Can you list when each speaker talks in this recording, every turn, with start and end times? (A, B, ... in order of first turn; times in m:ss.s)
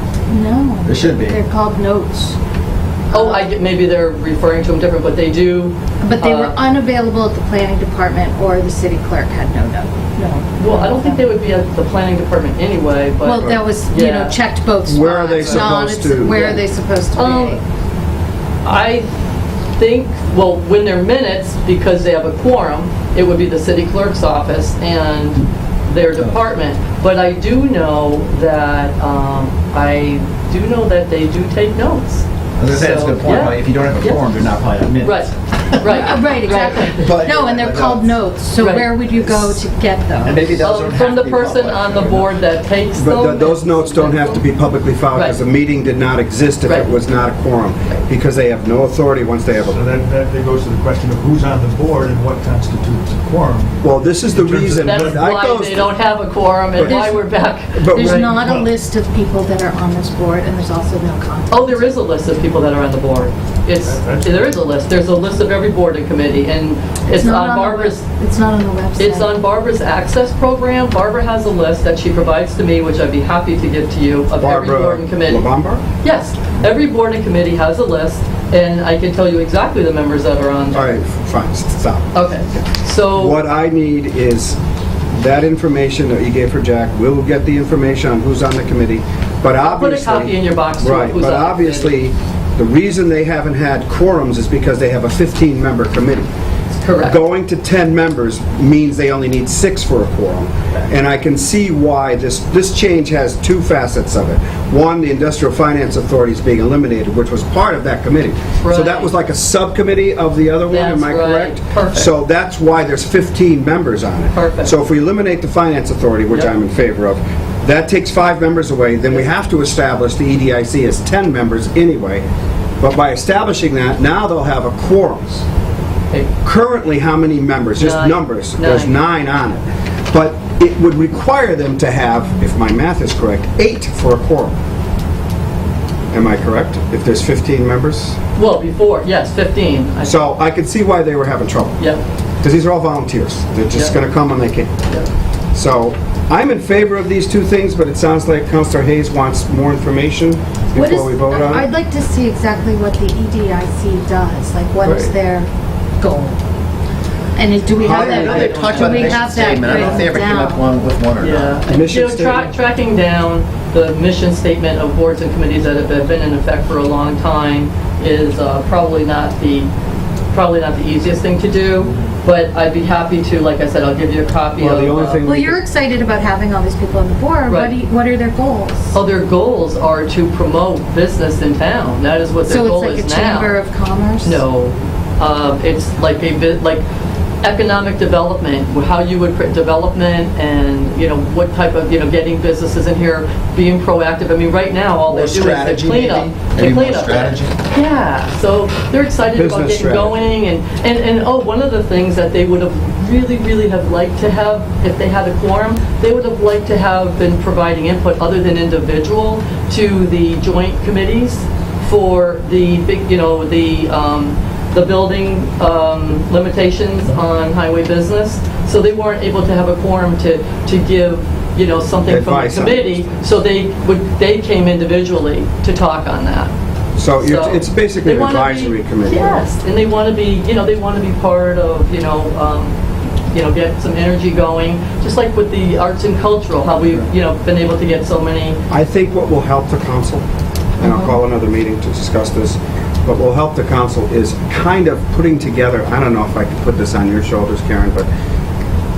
0:00.3-0:02.4 A
0:00.8-0:01.4 B
0:03.1-0:03.5 A
0:03.1-0:06.6 C
0:06.0-0:11.3 A
0:10.6-0:14.4 C
0:13.2-0:17.6 A
0:13.4-0:13.6 D
0:14.8-0:16.6 D
0:15.3-0:15.8 C
0:17.1-0:17.6 C
0:18.6-0:19.1 C
0:19.8-0:34.2 C
0:32.6-0:35.8 B
0:35.0-0:37.1 C
0:35.8-0:40.6 A
0:37.0-0:38.0 B
0:38.6-0:38.9 C
0:40.2-0:42.3 B
0:40.6-0:44.5 C
0:43.0-0:49.8 D
0:45.1-0:45.4 C
0:49.5-0:55.3 E
0:53.8-0:55.9 D
0:54.8-0:58.4 C
0:56.8-0:57.2 D
0:56.8-0:57.1 A
0:57.7-0:58.6 D
0:57.9-1:02.0 A
1:01.5-1:08.0 C
1:03.8-1:04.6 E
1:07.1-1:09.3 A
1:09.0-1:15.5 C
1:14.4-1:15.8 D
1:16.0-1:21.0 C
1:20.7-1:24.6 D
1:22.1-1:23.4 C
1:25.1-1:36.3 D
1:29.6-1:32.0 C
1:36.8-1:37.2 C
1:37.0-2:02.2 D
1:48.6-1:49.1 C
1:50.7-1:52.1 C
1:54.3-1:54.8 C
2:02.8-2:05.4 D
2:06.4-2:14.6 D
2:07.8-2:09.0 C
2:16.1-2:18.2 D
2:18.4-2:20.3 C
2:20.0-2:21.8 D
2:22.4-2:24.7 D
2:25.5-2:31.7 D
2:30.8-2:35.5 A
2:34.8-2:35.1 D
2:36.0-2:36.4 A
2:37.4-2:40.6 A
2:37.8-2:39.0 D
2:37.8-2:40.1 C
2:37.8-2:41.6 B
2:41.2-2:49.7 C
2:41.7-2:42.5 D
2:50.3-2:55.2 C
2:54.6-2:55.6 D
2:55.2-2:58.9 A
2:57.5-2:57.8 C
2:58.9-3:03.6 C
3:02.5-3:04.4 A
3:04.2-3:06.8 C
3:07.4-3:46.5 C
3:15.1-3:17.5 B
3:19.3-3:20.3 D
3:42.1-3:43.0 D
3:47.0-3:49.4 D
3:47.2-3:52.7 C
3:53.3-3:58.6 C
3:58.7-4:00.2 D
4:00.8-4:08.1 D